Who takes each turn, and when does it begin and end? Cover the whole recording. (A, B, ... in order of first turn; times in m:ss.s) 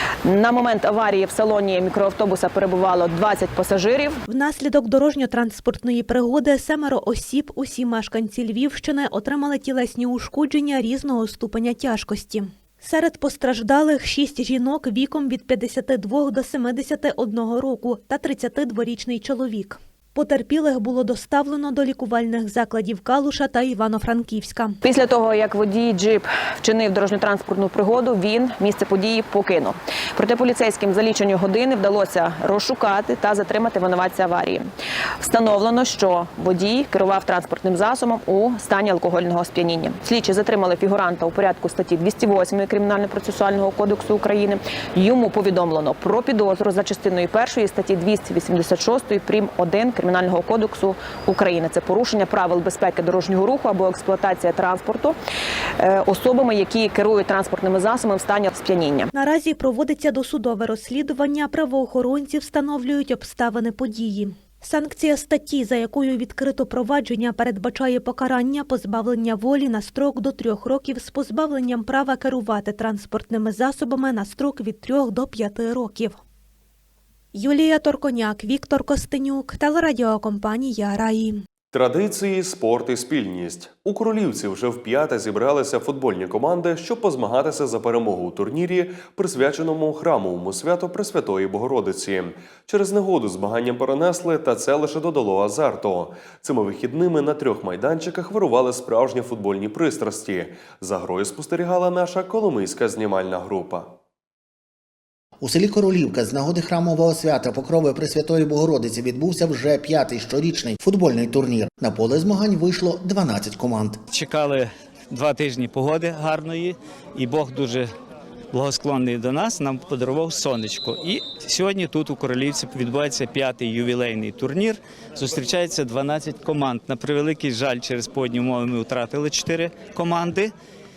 0:00.2-0:04.2 A
0:04.3-0:24.8 B
0:24.8-0:34.7 A
0:35.2-0:55.1 A
0:55.8-0:59.1 A
0:59.1-1:16.2 B
1:17.3-1:21.4 B
1:21.7-1:43.9 C
1:45.4-1:54.0 D
1:54.1-1:57.9 E
1:58.5-2:10.5 E